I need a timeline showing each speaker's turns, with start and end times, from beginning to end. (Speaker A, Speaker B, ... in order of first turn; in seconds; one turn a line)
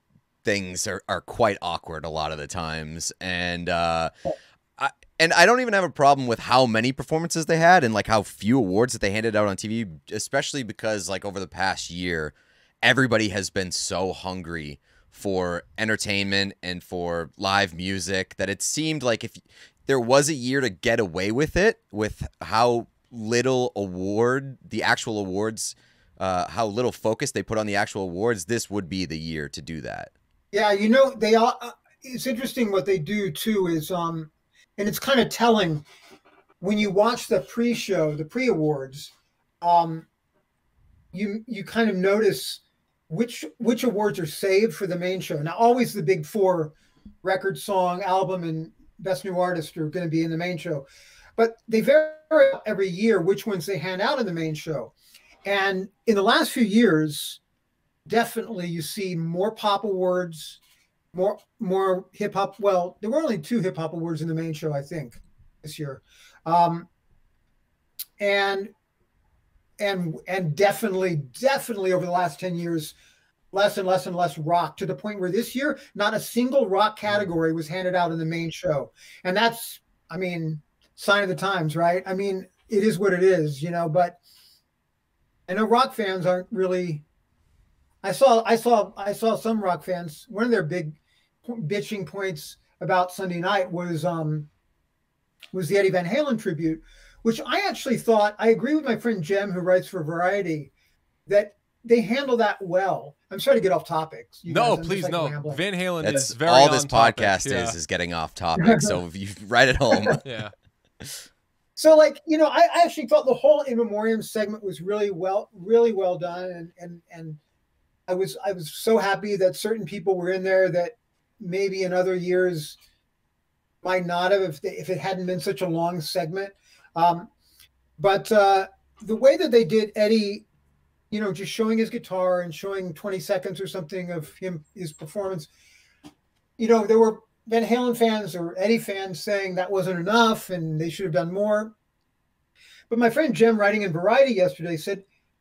Speaker A: 0.4-4.1
Speaker A: 4.8-30.1
Speaker B: 30.5-35.9
Speaker B: 36.6-40.1
Speaker B: 41.1-50.9
Speaker B: 51.4-54.9
Speaker B: 55.5-57.4
Speaker B: 58.1-60.6
Speaker B: 61.1-66.9
Speaker B: 68.2-68.7
Speaker B: 69.8-72.9
Speaker B: 73.5-84.2
Speaker B: 85.5-87.0
Speaker B: 88.0-94.5
Speaker B: 95.5-100.7
Speaker B: 101.3-105.6
Speaker C: 104.5-107.8
Speaker A: 106.0-110.2
Speaker B: 108.6-108.9
Speaker B: 109.9-110.2
Speaker C: 110.2-110.5
Speaker B: 111.8-117.4
Speaker B: 118.1-122.8
Speaker B: 123.8-127.3
Speaker B: 128.0-130.4
Speaker B: 131.1-135.5
Speaker B: 136.6-141.7
Speaker B: 142.9-145.0